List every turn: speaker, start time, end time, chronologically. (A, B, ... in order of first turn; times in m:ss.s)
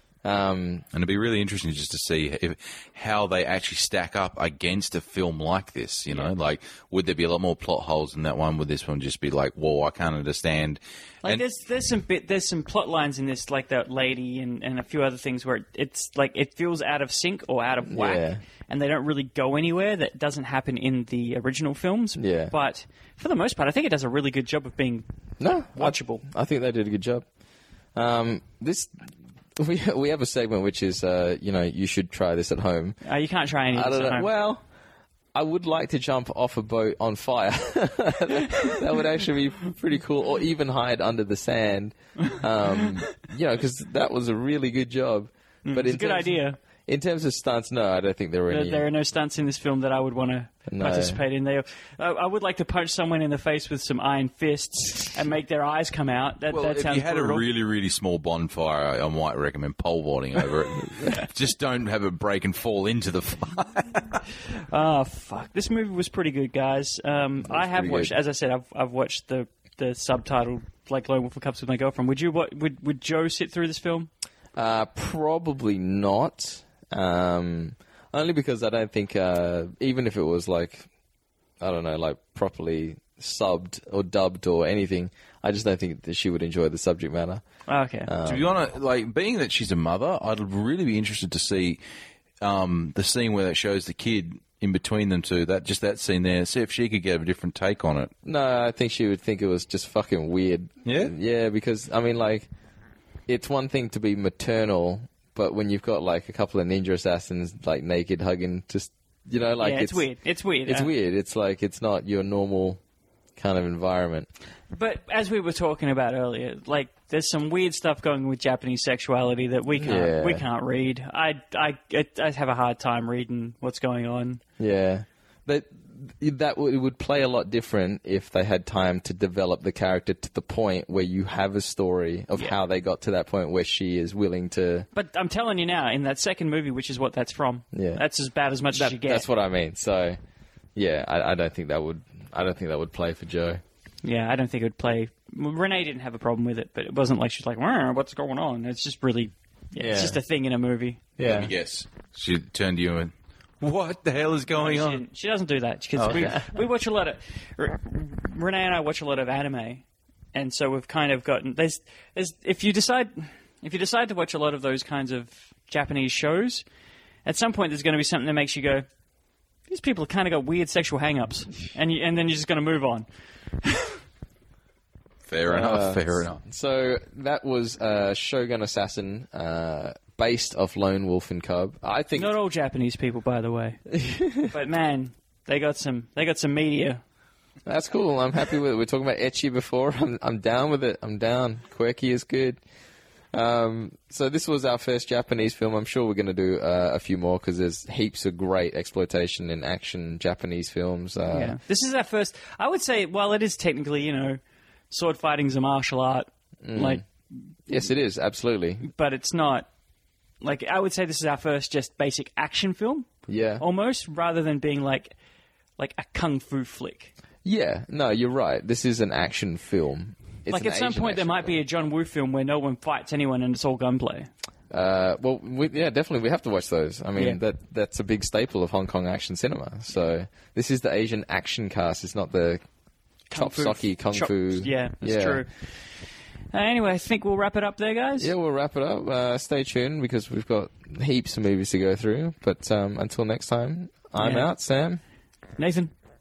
0:00.2-0:00.8 A
0:00.9-0:11.4 B
0:11.2-0:25.0 C
0:17.9-0:18.4 A
0:22.2-0:22.5 A
0:25.4-0:27.2 A
0:25.7-0:26.2 C
0:27.9-0:33.0 A
0:33.0-0:34.3 C
0:33.7-0:34.6 A
0:35.3-0:48.8 A
0:45.6-0:46.6 C
0:48.5-0:57.4 C
0:50.7-0:51.2 A
0:56.5-1:04.2 B
1:04.7-1:14.1 C
1:07.5-1:08.1 B
1:14.6-1:20.9 A
1:21.6-1:27.4 A
1:27.7-1:28.1 C
1:28.0-1:28.4 A
1:28.2-1:31.8 B
1:32.4-1:38.1 B
1:38.2-1:42.5 A
1:40.8-1:41.1 B
1:43.3-1:50.0 A
1:49.6-1:50.9 C
1:50.6-1:52.8 A
1:53.4-1:54.3 A
1:54.7-2:04.4 C
1:59.8-2:00.4 A
2:04.6-2:14.9 A
2:14.9-2:19.2 C
2:17.7-2:18.0 A
2:18.7-2:20.2 A
2:20.7-2:23.6 A
2:24.0-2:31.0 C
2:29.8-2:30.2 A
2:31.2-2:31.5 A
2:31.2-2:35.0 B
2:34.5-2:46.6 C
2:36.0-2:36.3 B
2:36.0-2:36.5 A
2:47.2-2:48.9 C
2:49.7-2:53.1 C
2:53.6-2:54.0 C
2:55.3-2:56.4 B
2:55.5-3:02.3 A
3:02.1-3:07.0 C
3:03.9-3:04.4 A
3:07.6-3:12.6 A
3:13.3-3:21.6 A
3:21.3-3:24.4 C
3:24.9-3:27.0 C
3:26.6-3:27.0 A
3:27.7-3:28.8 A
3:28.8-3:29.7 C
3:30.4-3:33.1 C
3:33.3-3:33.6 A
3:33.6-3:35.1 C
3:35.8-3:37.1 C
3:37.4-3:41.6 A
3:40.5-3:44.3 C
3:44.7-3:52.6 A
3:53.3-3:55.9 C
3:53.3-3:55.4 A
3:56.5-3:58.3 C
3:58.2-4:05.0 A
4:04.2-4:04.5 C
4:05.6-4:05.9 C